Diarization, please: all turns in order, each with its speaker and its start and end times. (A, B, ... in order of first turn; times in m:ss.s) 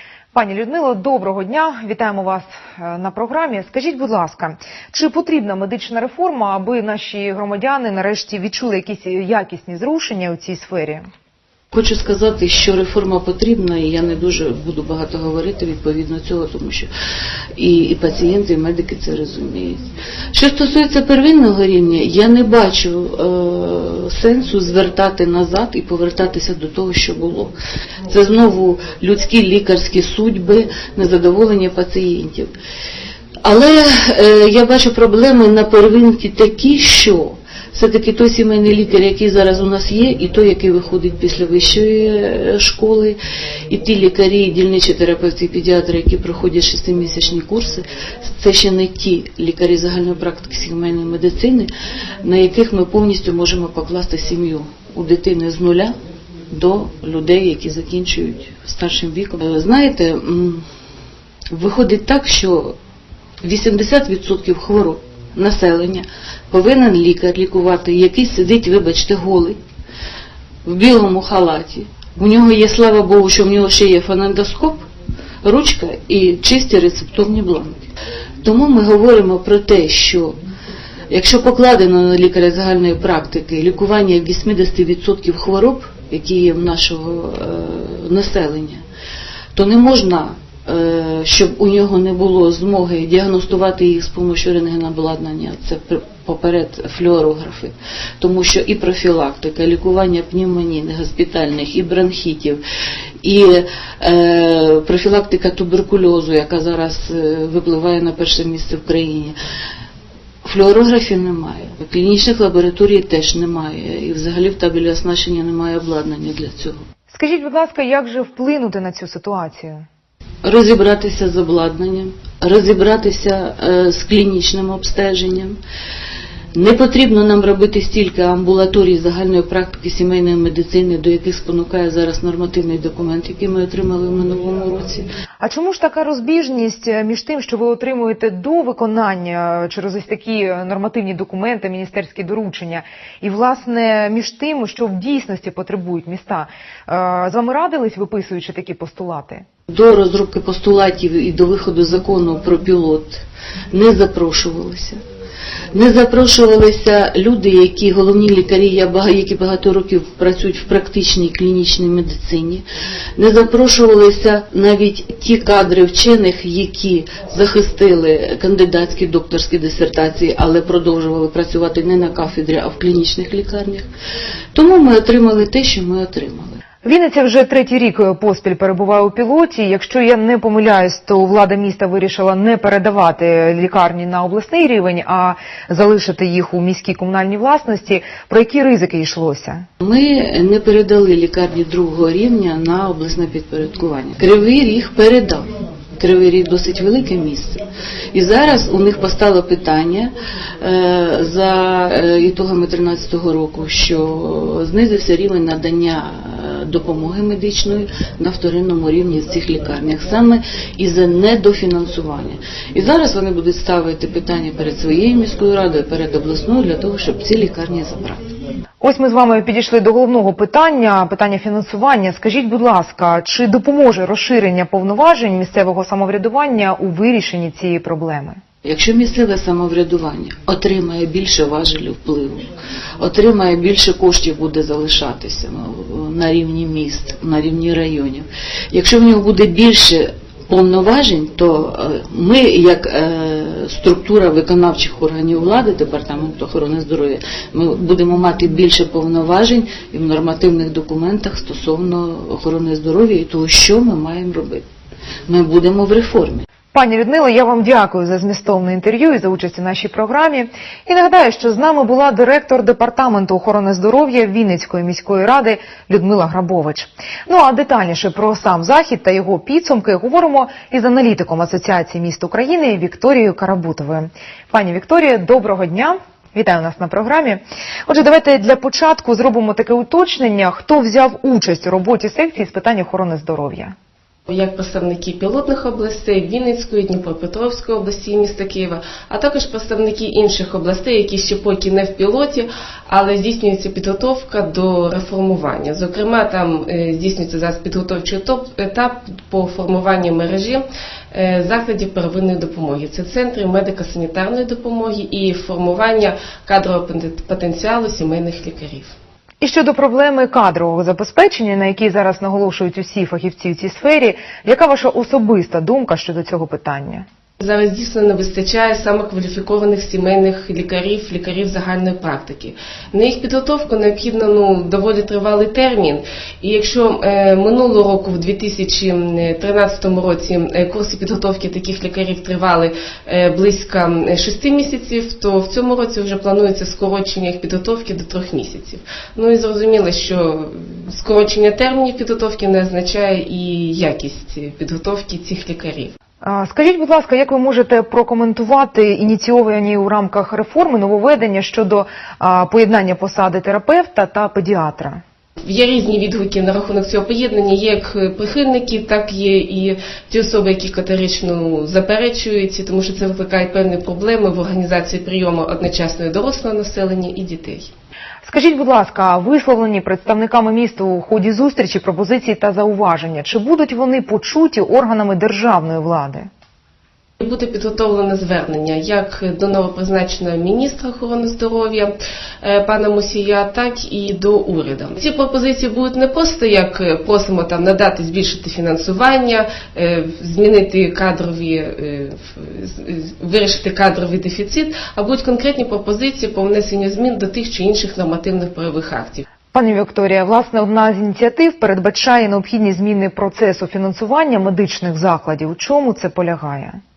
0:00.3-0:11.0 A
0:11.7-0:16.9 B
0:17.6-0:27.5 B
0:28.1-0:32.5 B
0:33.4-0:43.2 B
0:43.7-0:51.7 B
0:52.2-0:55.9 B
0:56.5-1:00.6 B
1:01.5-1:02.8 B
1:03.4-1:09.6 B
1:10.6-1:14.8 B
1:15.4-1:17.8 B
1:18.4-1:20.4 B
1:21.1-1:28.8 B
1:29.5-1:42.6 B
1:43.2-1:49.3 B
1:50.4-1:56.8 B
1:57.1-1:59.8 A
2:00.4-2:05.6 B
2:06.5-2:15.1 B
2:15.4-2:29.4 A
2:29.7-2:35.0 B
2:35.7-2:42.6 B
2:43.2-2:53.8 B
2:54.5-2:56.6 B
2:56.8-3:09.6 A
3:09.8-3:17.6 B
3:18.1-3:38.2 B
3:38.8-3:48.4 A
3:48.6-3:52.4 B
3:53.0-4:14.6 B
4:15.3-4:16.4 B
4:16.7-4:43.7 A
4:44.3-5:08.9 C
5:09.4-5:17.0 A
5:17.4-5:45.9 C
5:46.2-5:55.0 A
5:55.4-6:07.7 C
6:08.2-6:16.3 A
6:17.2-6:39.2 C
6:39.5-6:46.8 A